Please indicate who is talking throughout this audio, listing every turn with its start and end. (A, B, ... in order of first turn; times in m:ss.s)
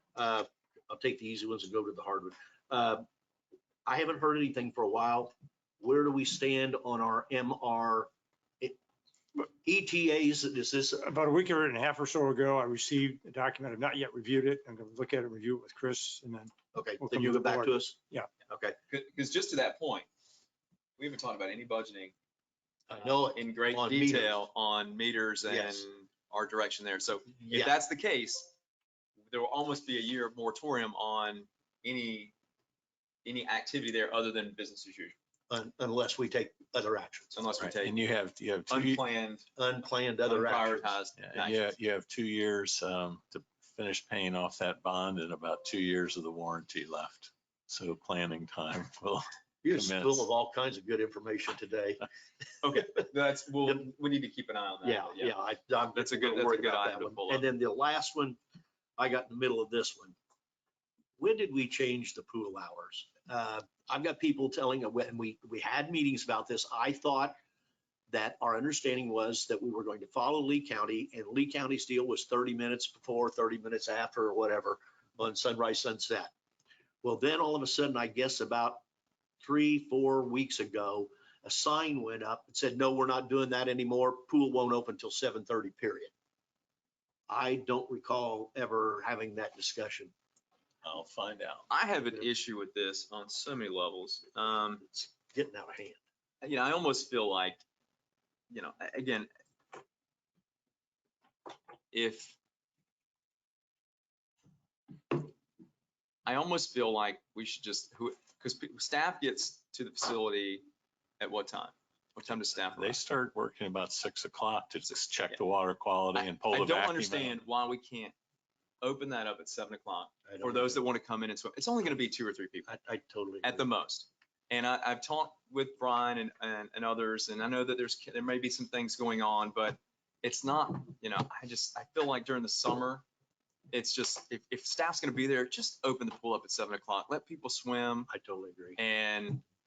0:00.2-0:03.1 A
0:03.9-0:08.1 A
0:09.4-0:11.0 A
0:11.0-0:18.3 B
0:16.7-0:18.8 A
0:18.9-0:20.1 C
0:21.0-0:22.1 C
0:22.9-0:24.4 A
0:23.3-0:28.5 C
0:25.5-0:25.8 A
0:27.3-0:27.8 A
0:29.3-0:32.3 C
0:33.2-0:35.2 C
0:35.5-0:37.4 A
0:37.3-0:38.0 C
0:37.6-0:39.0 D
0:38.7-0:39.5 C
0:39.6-0:41.0 A
0:40.3-0:41.7 C
0:41.2-0:50.3 D
0:49.6-0:52.0 A
0:52.6-0:55.4 C
0:54.8-0:58.4 A
0:56.0-0:57.5 C
0:59.0-1:00.2 A
1:01.2-1:07.4 A
1:08.1-1:16.3 A
1:17.0-1:18.8 A
1:19.4-1:26.1 A
1:27.3-1:30.1 A
1:30.8-1:31.7 D
1:31.7-1:34.8 C
1:34.9-1:36.0 A
1:36.4-1:37.6 C
1:38.5-1:39.3 C
1:41.9-1:42.4 C
1:46.3-1:50.7 C
1:51.2-1:53.0 C
1:52.7-1:57.4 D
1:56.2-1:58.2 C
1:58.8-2:02.7 C
2:00.3-2:00.8 A
2:02.7-2:03.7 A
2:03.4-2:13.0 C
2:13.7-2:18.1 C
2:18.1-2:18.8 A
2:18.8-2:19.4 C